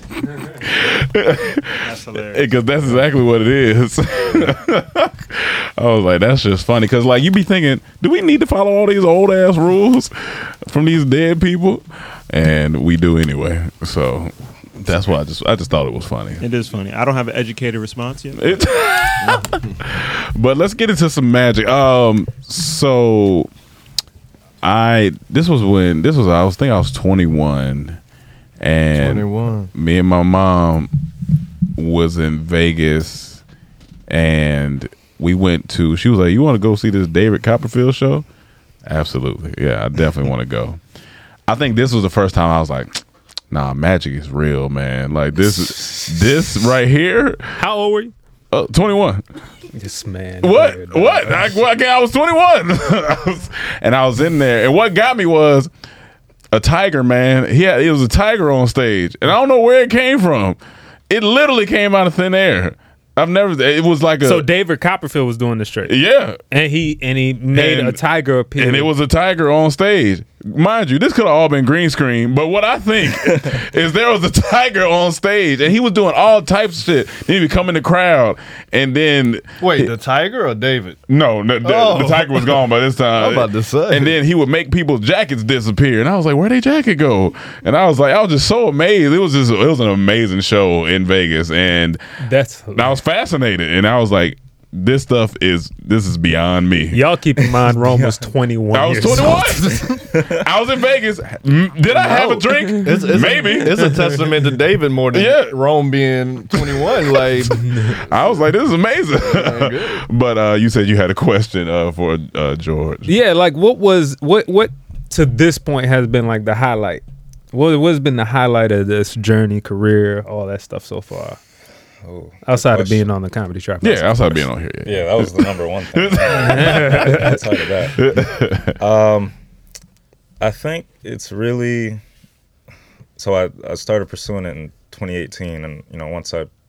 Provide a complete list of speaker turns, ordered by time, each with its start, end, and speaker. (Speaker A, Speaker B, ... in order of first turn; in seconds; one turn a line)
Speaker A: 0.6-16.4
Speaker B: 1.8-3.0
Speaker B: 16.4-18.6
Speaker A: 18.3-23.5
Speaker C: 19.2-19.7
Speaker A: 24.6-28.0
Speaker A: 28.6-30.9
Speaker C: 28.9-29.7
Speaker A: 31.8-33.4
Speaker A: 34.1-38.2
Speaker A: 38.9-40.8
Speaker A: 41.5-47.6
Speaker D: 47.6-48.1
Speaker A: 48.5-49.2
Speaker D: 49.7-51.6
Speaker A: 50.4-55.7
Speaker A: 56.5-60.6
Speaker A: 61.1-64.5
Speaker D: 64.2-66.0
Speaker A: 65.9-66.4
Speaker D: 66.5-68.9
Speaker A: 67.5-68.0
Speaker A: 68.6-79.9
Speaker C: 79.6-81.0
Speaker A: 81.1-92.0
Speaker C: 81.6-84.2
Speaker D: 92.2-93.0
Speaker A: 92.7-97.0
Speaker D: 96.9-100.0
Speaker E: 97.9-98.1
Speaker A: 98.7-104.2
Speaker E: 99.9-100.4
Speaker C: 102.0-107.6
Speaker A: 105.1-105.6
Speaker A: 106.5-113.1
Speaker C: 109.2-110.0
Speaker D: 113.0-121.4
Speaker E: 122.0-123.0
Speaker D: 122.4-124.5
Speaker A: 123.8-127.3
Speaker E: 124.8-128.0
Speaker D: 126.3-127.4
Speaker A: 128.0-128.8
Speaker E: 128.8-129.3
Speaker E: 130.4-132.0
Speaker E: 133.2-136.5